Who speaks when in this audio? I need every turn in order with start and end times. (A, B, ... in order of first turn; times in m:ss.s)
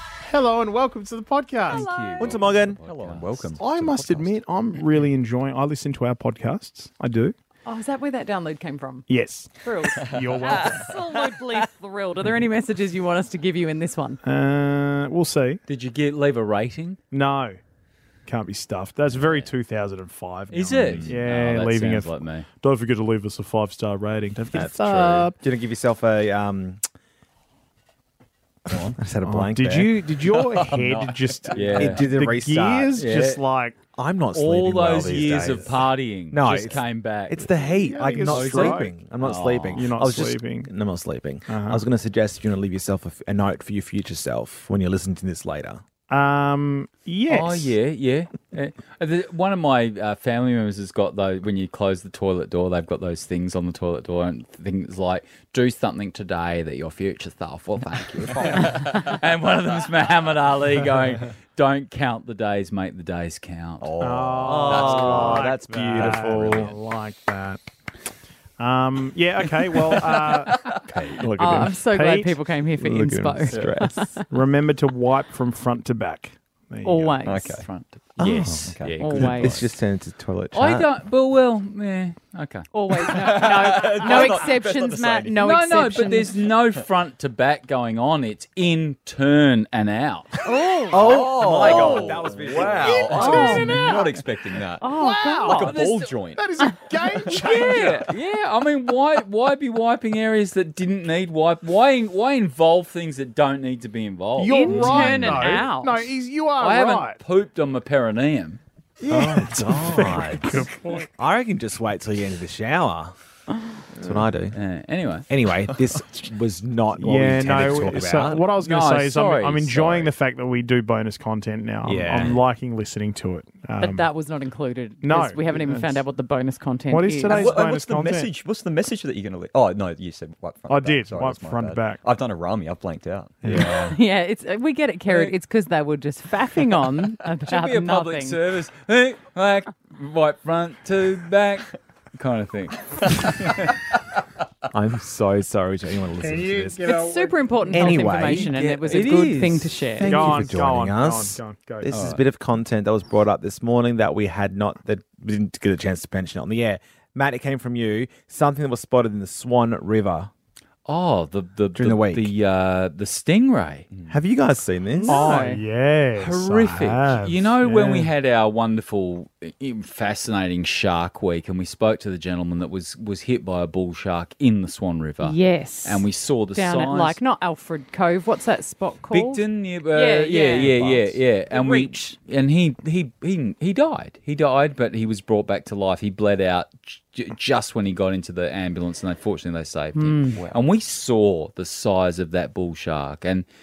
0:00.2-0:01.8 A
0:01.7-0:02.4 B
0:01.7-0:03.6 C
0:02.2-0:02.8 D
0:02.5-0:04.4 E
0:03.6-0:07.3 A
0:07.6-0:09.1 B
0:09.1-0:10.9 A
0:09.6-0:14.2 B
0:10.1-0:10.8 E
0:14.2-0:15.6 A
0:15.7-0:17.0 C
0:17.1-0:17.6 A
0:18.3-0:25.4 A
0:20.5-0:22.5 C
0:24.4-0:26.8 D
0:28.7-0:29.0 E
0:29.0-0:30.1 D
0:29.2-0:33.8 A
0:30.2-0:32.1 E
0:31.5-0:32.0 C
0:31.7-0:32.9 D
0:33.0-0:33.4 C
0:34.0-0:45.8 D
0:34.3-0:37.5 C
0:37.6-0:38.9 A
0:38.3-0:39.8 C
0:39.7-0:40.7 A
0:41.5-0:41.8 A
0:46.1-0:47.7 A
0:47.3-1:03.9 C
0:58.4-0:58.9 E
1:03.8-1:06.8 E
1:04.0-1:07.6 A
1:04.4-1:06.7 D
1:08.6-1:12.4 A
1:09.7-1:10.8 E
1:10.9-1:11.6 D
1:11.4-1:14.2 B
1:12.8-1:14.1 D
1:14.3-1:17.2 A
1:16.8-1:17.6 B
1:17.2-1:17.7 E
1:17.6-1:19.7 C
1:18.2-1:20.9 D
1:18.2-1:19.6 E
1:19.0-1:19.6 B
1:20.5-1:22.7 C
1:22.7-1:26.3 B
1:23.1-1:25.4 E
1:25.4-1:30.3 C
1:30.4-1:32.0 B
1:30.9-1:33.5 D
1:30.9-1:37.8 E
1:32.8-1:34.1 A
1:33.0-1:34.0 B
1:33.3-1:34.0 C
1:34.8-1:35.8 B
1:34.9-1:35.7 A
1:35.5-1:36.2 C
1:36.4-1:38.1 A
1:37.3-1:45.6 C
1:44.4-1:47.2 A
1:44.5-1:46.1 B
1:46.6-1:48.6 C
1:49.0-1:51.1 A
1:49.1-1:53.1 D
1:54.0-1:54.6 D
1:54.5-1:55.3 C
1:55.3-1:58.4 D
1:57.0-2:04.1 A
1:58.6-2:00.1 C
2:01.8-2:02.3 D
2:03.8-2:07.6 B
2:05.0-2:06.0 A
2:06.9-2:08.3 A
2:07.3-2:13.9 E
2:10.7-2:12.0 A
2:13.4-2:13.9 A
2:13.5-2:18.4 B
2:15.1-2:15.3 C
2:17.3-2:23.7 C
2:24.7-2:27.0 D
2:26.2-2:28.0 A
2:26.8-2:30.4 B
2:27.7-2:28.5 D
2:28.3-2:29.8 C
2:30.0-2:40.3 D
2:30.0-2:31.9 A
2:31.9-2:32.2 C
2:40.8-2:43.9 C
2:41.7-2:42.3 D
2:44.1-2:45.3 D
2:45.0-2:45.6 B
2:45.1-2:48.1 A
2:46.2-2:57.2 C
2:55.2-3:02.2 B
2:59.1-3:13.4 C
3:09.9-3:10.4 B